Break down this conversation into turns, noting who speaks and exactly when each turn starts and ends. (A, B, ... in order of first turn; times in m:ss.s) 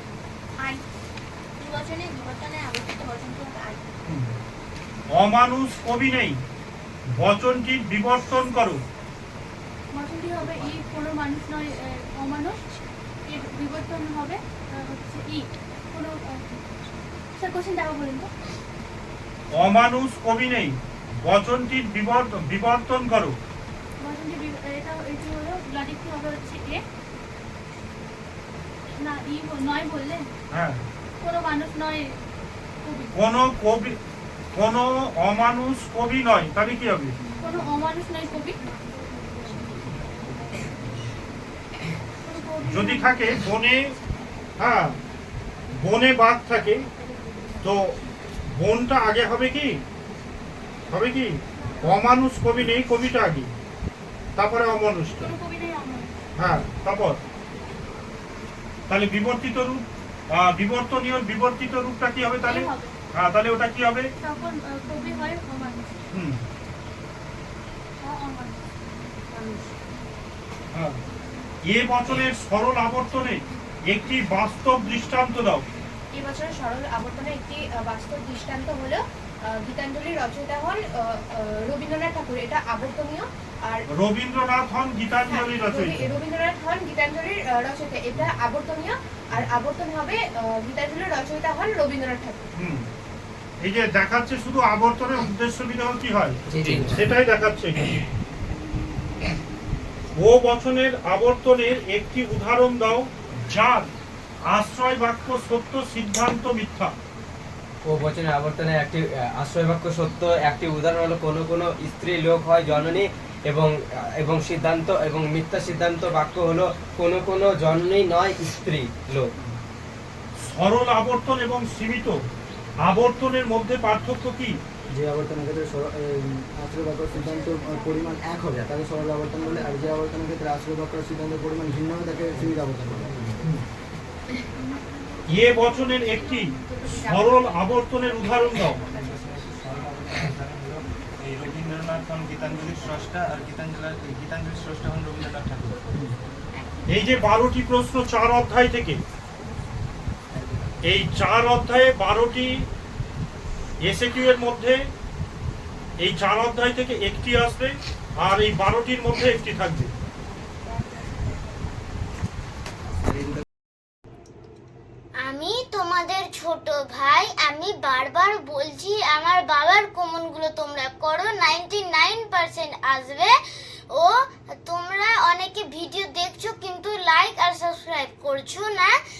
0:01.6-0:03.8 A
0:04.1-0:04.3 B
0:05.1-0:06.4 B
0:07.1-0:08.8 B
0:09.9-0:12.6 A
0:13.2-0:16.4 A
0:17.4-0:18.3 A
0:19.5-0:23.4 B
0:24.0-0:26.8 A
0:28.9-0:30.3 A
0:30.5-0:30.8 B
0:31.2-0:32.2 A
0:32.8-0:33.1 A
0:33.1-0:34.0 B
0:34.5-0:37.2 B
0:37.4-0:38.6 A
0:42.2-0:43.2 A
0:42.6-0:43.9 B
0:44.6-0:45.0 B
0:45.7-0:46.8 B
0:47.6-0:48.0 B
0:48.5-0:49.8 B
0:50.9-0:53.5 B
0:54.4-0:55.4 B
0:55.2-0:56.1 A
0:56.4-0:57.2 B
0:58.9-1:04.1 B
1:02.4-1:02.9 A
1:04.2-1:06.0 A
1:06.1-1:06.4 B
1:08.0-1:08.6 A
1:09.3-1:09.7 C
1:10.7-1:11.0 B
1:11.6-1:15.6 B
1:16.1-1:23.8 C
1:23.9-1:26.1 B
1:25.3-1:32.4 C
1:32.6-1:32.9 B
1:33.6-1:38.0 B
1:40.2-1:43.9 B
1:44.5-1:46.9 B
1:47.9-1:48.8 D
1:51.2-1:52.4 D
1:54.5-1:59.3 D
2:00.4-2:02.2 B
2:02.8-2:04.6 B
2:04.9-2:13.4 E
2:15.3-2:18.8 B
2:17.0-2:17.2 C
2:18.9-2:25.8 F
2:26.9-2:29.0 B
2:30.8-2:32.6 B
2:33.8-2:34.8 B
2:36.0-2:39.9 B
2:45.2-2:53.3 G
2:54.6-2:58.9 G